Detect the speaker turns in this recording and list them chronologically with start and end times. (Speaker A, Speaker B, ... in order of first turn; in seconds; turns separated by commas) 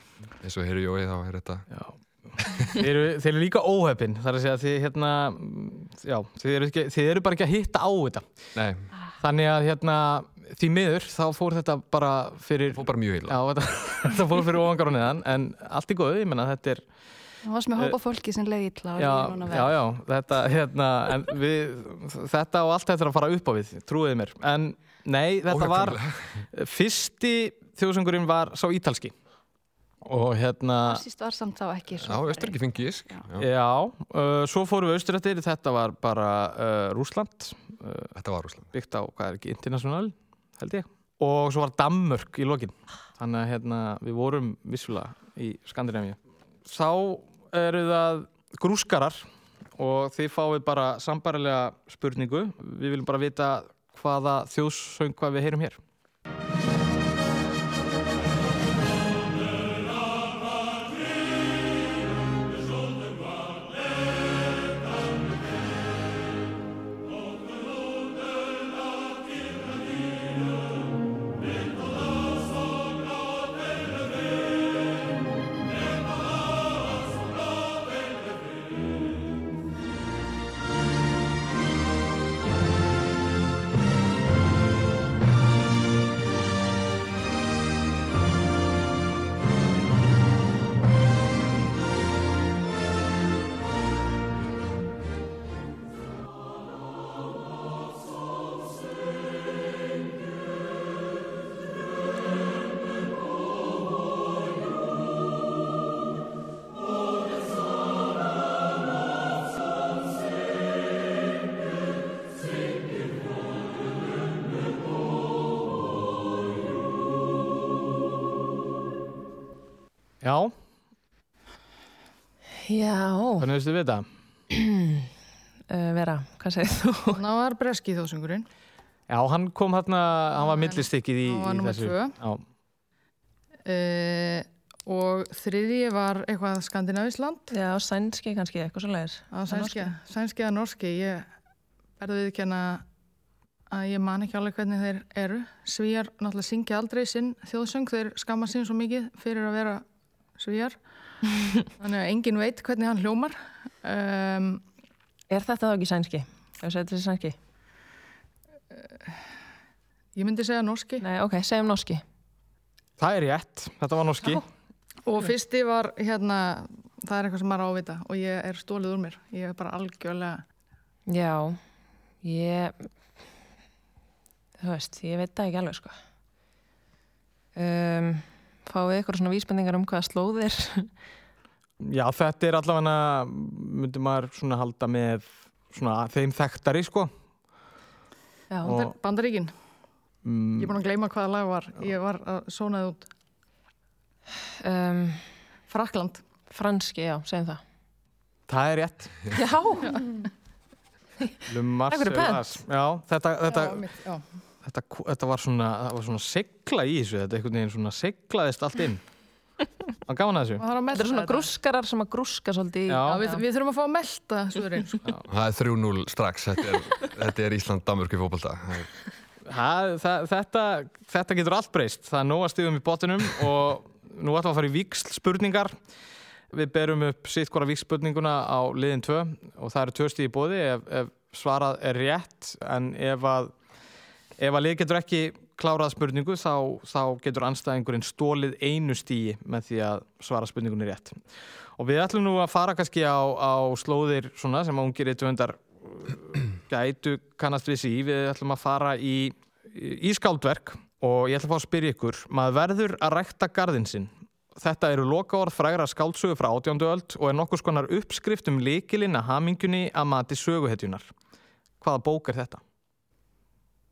Speaker A: 0.4-1.7, Speaker B: 1.7-8.2, Speaker A: 8.5-8.9, Speaker B: 9.2-16.8, Speaker A: 12.7-13.4, Speaker C: 17.4-19.7, Speaker B: 19.0-26.0, Speaker A: 25.5-26.4, Speaker B: 26.5-29.1, Speaker B: 30.0-31.0, Speaker C: 30.8-33.2, Speaker A: 31.9-33.5, Speaker B: 33.4-38.1, Speaker A: 38.1-38.7, Speaker B: 38.7-49.2, Speaker B: 49.8-55.8, Speaker B: 120.2-120.5, Speaker D: 122.6-123.5, Speaker B: 123.4-124.0, Speaker D: 124.5-125.1, Speaker D: 125.7-127.2, Speaker E: 127.1-128.4, Speaker B: 129.1-132.4, Speaker E: 130.4-132.2, Speaker E: 133.7-137.5, Speaker D: 137.5-139.9, Speaker E: 139.3-141.3, Speaker E: 142.0-142.8, Speaker E: 143.7-149.8, Speaker E: 150.3-150.8, Speaker E: 151.8-154.6, Speaker D: 155.3-157.4, Speaker E: 160.1-161.0, Speaker D: 161.0-162.0, Speaker B: 163.0-164.4, Speaker E: 165.0-170.4, Speaker D: 171.1-171.6, Speaker D: 172.2-172.9, Speaker D: 174.6-175.9, Speaker D: 177.5-180.9, Speaker B: 181.8-187.1, Speaker D: 188.5-188.8, Speaker B: 188.6-188.9, Speaker E: 188.6-189.5, Speaker B: 190.2-190.8, Speaker E: 190.6-193.1, Speaker D: 194.6-195.3, Speaker E: 195.7-196.2, Speaker D: 196.5-197.6, Speaker B: 198.5-199.3, Speaker D: 199.3-200.2, Speaker B: 201.5-203.8, Speaker D: 201.9-202.4, Speaker E: 203.5-204.2, Speaker B: 204.6-209.0, Speaker B: 210.1-210.6, Speaker E: 210.6-211.5, Speaker D: 210.9-213.4, Speaker B: 212.9-213.2, Speaker E: 213.1-215.2, Speaker A: 215.3-218.9, Speaker B: 219.4-225.7, Speaker B: 226.5-233.5, Speaker B: 234.4-241.2, Speaker B: 241.8-261.1, Speaker B: 261.8-262.6